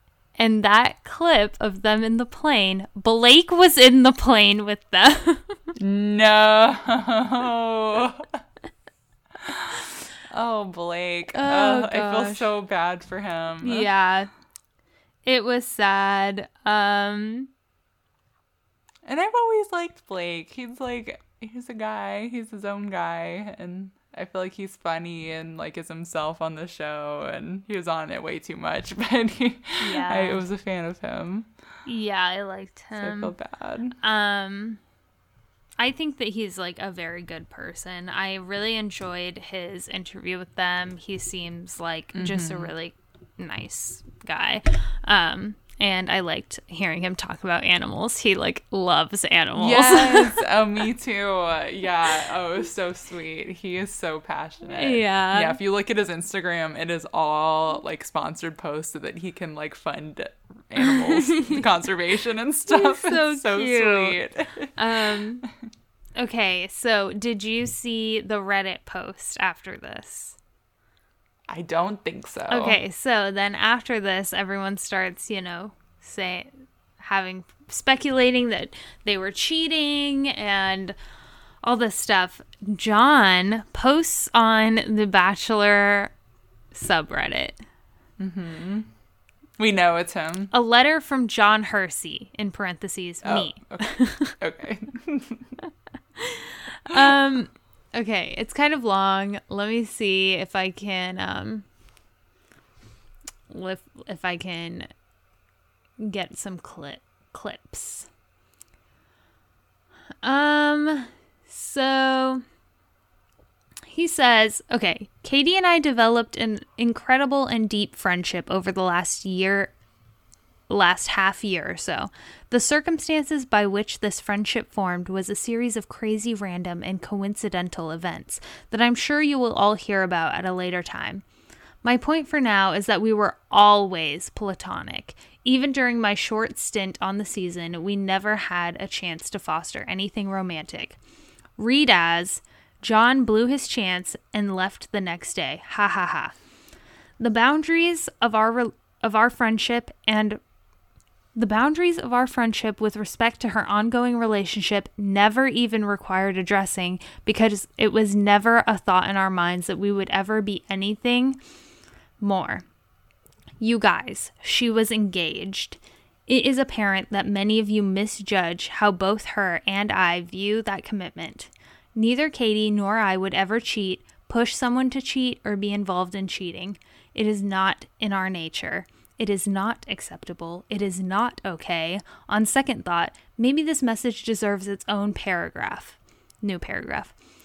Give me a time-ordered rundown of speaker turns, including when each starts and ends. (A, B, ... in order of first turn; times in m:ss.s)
0:00.4-0:05.8 A
0:05.8-0:08.4 B
0:09.4-0:13.9 B
0:11.3-0:12.5 A
0:13.6-0:14.3 A
0:15.2-0:17.5 A
0:19.0-0:31.5 B
0:29.8-0:30.4 A
0:31.8-0:33.4 A
0:33.0-0:34.0 B
0:34.0-0:34.8 A
0:35.8-0:50.4 A
0:42.1-0:42.7 B
0:49.6-1:05.5 B
0:54.7-0:55.6 A
1:00.8-1:01.7 A
1:02.7-1:04.2 A
1:04.8-1:05.4 A
1:06.2-1:10.4 A
1:11.5-1:12.8 B
1:12.5-1:21.0 A
1:21.6-1:26.1 A
1:26.7-1:27.6 A
1:28.2-1:28.9 B
1:29.6-1:30.5 B
1:30.5-1:34.4 A
1:33.2-1:35.6 B
1:36.2-1:41.7 A
1:43.5-1:44.9 A
1:46.0-1:48.1 A
1:50.2-1:52.4 A
1:53.9-1:59.7 A
2:00.7-2:11.2 A
2:11.8-2:21.0 A
2:21.6-2:26.4 A
2:27.2-2:30.4 A
2:31.4-2:41.4 A
2:42.2-2:42.6 A
2:43.6-3:07.2 A